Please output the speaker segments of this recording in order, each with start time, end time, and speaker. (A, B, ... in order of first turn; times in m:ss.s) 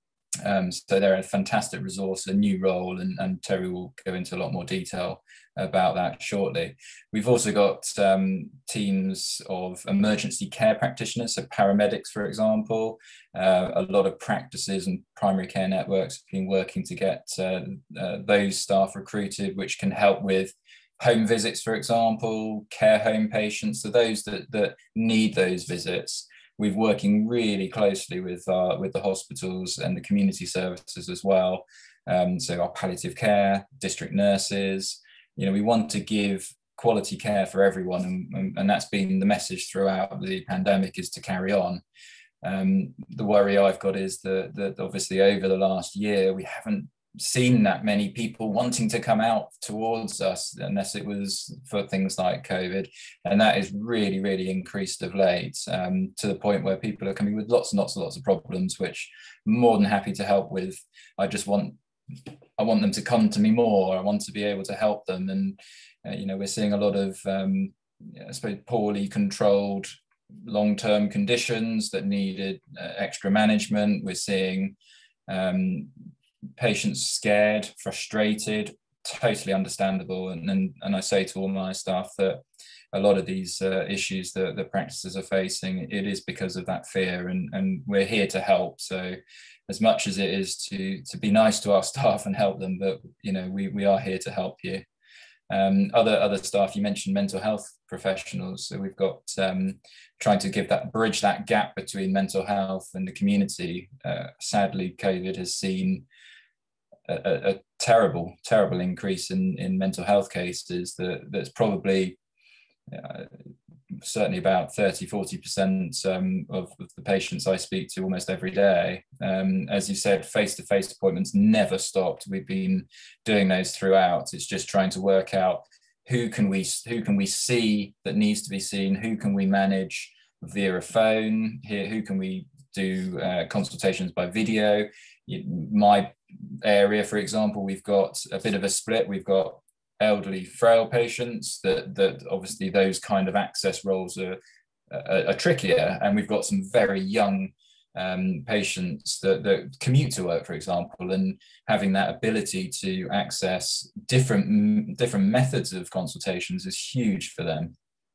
0:00.4-0:41.8 A
0:42.4-1:01.8 A
1:02.6-1:09.9 A
1:10.4-1:14.8 A
1:15.3-1:15.9 A
1:16.6-1:22.4 A
1:22.9-1:34.8 A
1:35.5-1:46.0 A
1:47.1-1:52.2 A
1:52.9-1:53.3 A
1:54.0-2:24.4 A
2:24.9-2:37.7 A